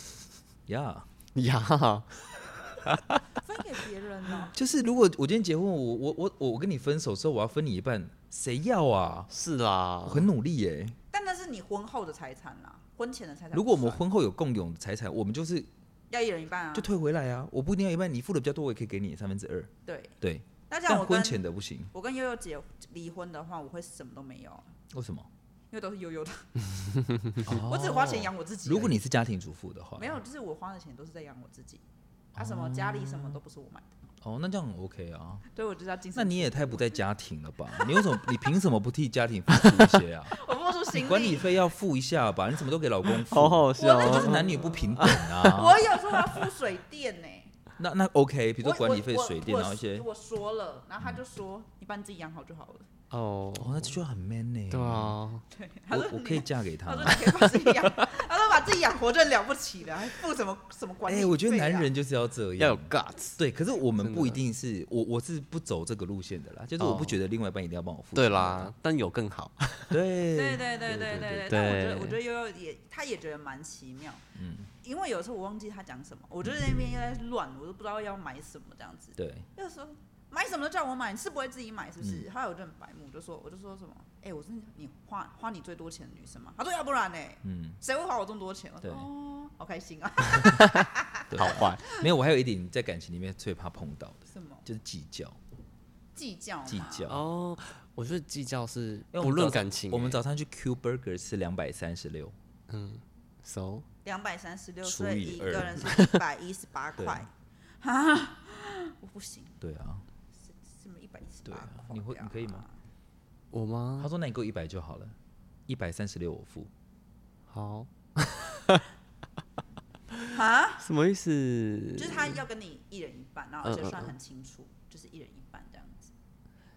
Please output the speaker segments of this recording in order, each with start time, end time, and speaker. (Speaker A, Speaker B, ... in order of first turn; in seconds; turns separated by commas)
Speaker A: 0.7-1.1, Speaker B: 1.3-2.1, Speaker C: 3.3-4.5, Speaker A: 4.5-9.3, Speaker B: 9.3-10.3, Speaker A: 10.1-11.0, Speaker C: 11.1-14.0, Speaker A: 13.5-15.7, Speaker C: 16.1-16.9, Speaker A: 16.7-21.9, Speaker C: 19.9-20.1, Speaker C: 20.7-24.7, Speaker A: 24.9-25.3, Speaker C: 25.7-26.7, Speaker C: 27.3-29.0, Speaker A: 27.4-30.2, Speaker C: 30.0-31.8, Speaker A: 32.3-33.4, Speaker C: 32.4-33.9, Speaker A: 34.2-35.5, Speaker C: 35.5-37.0, Speaker A: 36.1-40.4, Speaker C: 37.7-38.5, Speaker C: 39.6-41.6, Speaker A: 40.9-46.0, Speaker B: 43.2-45.5, Speaker C: 43.8-47.5, Speaker A: 47.8-50.1, Speaker C: 48.6-52.9, Speaker B: 53.1-54.0, Speaker A: 53.6-55.2, Speaker B: 54.7-55.4, Speaker C: 55.5-61.9, Speaker A: 55.9-58.0, Speaker A: 61.1-68.7, Speaker B: 62.6-63.4, Speaker B: 64.0-64.4, Speaker B: 66.8-67.2, Speaker B: 68.1-70.0, Speaker A: 69.9-71.5, Speaker C: 70.3-74.2, Speaker B: 71.2-72.2, Speaker A: 74.3-74.7, Speaker C: 74.8-92.1, Speaker A: 79.2-79.5, Speaker A: 82.0-82.3, Speaker A: 87.4-87.8, Speaker A: 88.8-89.1, Speaker B: 90.3-91.8, Speaker A: 91.3-95.4, Speaker C: 94.3-94.6, Speaker C: 96.1-97.1, Speaker A: 96.7-97.2, Speaker B: 97.1-100.2, Speaker A: 99.1-102.3, Speaker B: 102.7-103.9, Speaker C: 104.0-107.3, Speaker A: 104.8-106.0, Speaker A: 107.0-107.2, Speaker C: 107.8-109.6, Speaker A: 109.6-110.0, Speaker C: 110.4-112.8, Speaker A: 111.5-112.6, Speaker B: 113.5-114.1, Speaker A: 114.0-116.7, Speaker B: 117.5-118.9, Speaker C: 120.3-120.8, Speaker B: 120.8-122.4, Speaker C: 122.0-126.1, Speaker B: 123.6-124.1